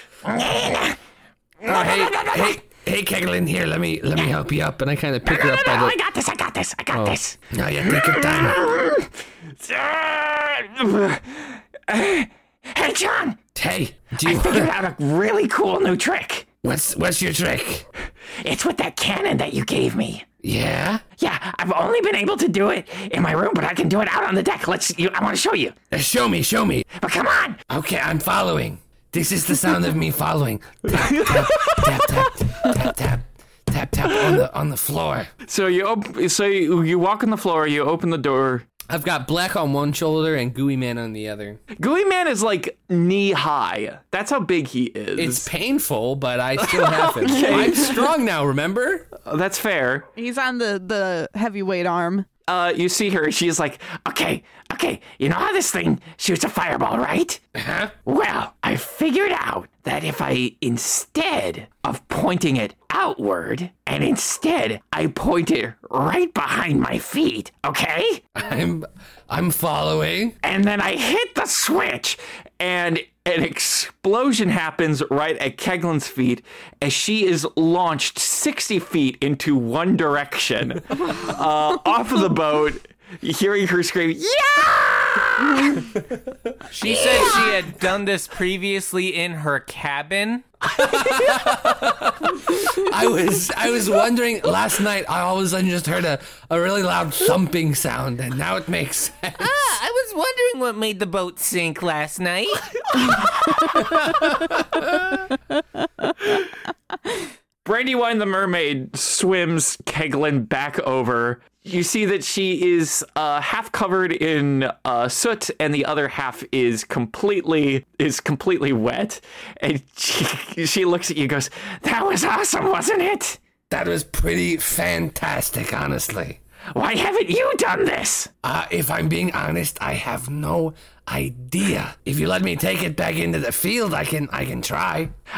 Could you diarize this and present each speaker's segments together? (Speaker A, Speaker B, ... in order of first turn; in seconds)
Speaker A: 0.2-1.0, 1.6-2.6, 5.2-7.4, 7.9-9.1, 9.6-13.4, 14.2-16.5, 18.4-20.2, 21.2-25.8, 27.0-27.6, 30.9-32.8, 34.1-34.4, 35.5-38.7, 41.8-45.5, 46.6-48.0, 49.2-50.1, 52.5-57.4, 58.1-68.2, 70.4-85.8, 107.7-123.4, 126.7-128.3
Speaker B: 1.6-6.0, 6.9-8.6, 13.6-14.7, 16.6-17.9, 20.4-21.0, 25.9-26.9, 27.7-35.3, 38.9-41.6, 45.1-49.1, 57.5-57.9, 68.3-70.4, 90.8-99.6, 123.7-126.4, 128.4-135.1
Speaker C: 50.2-52.3
Speaker D: 86.7-90.5
Speaker E: 99.4-102.6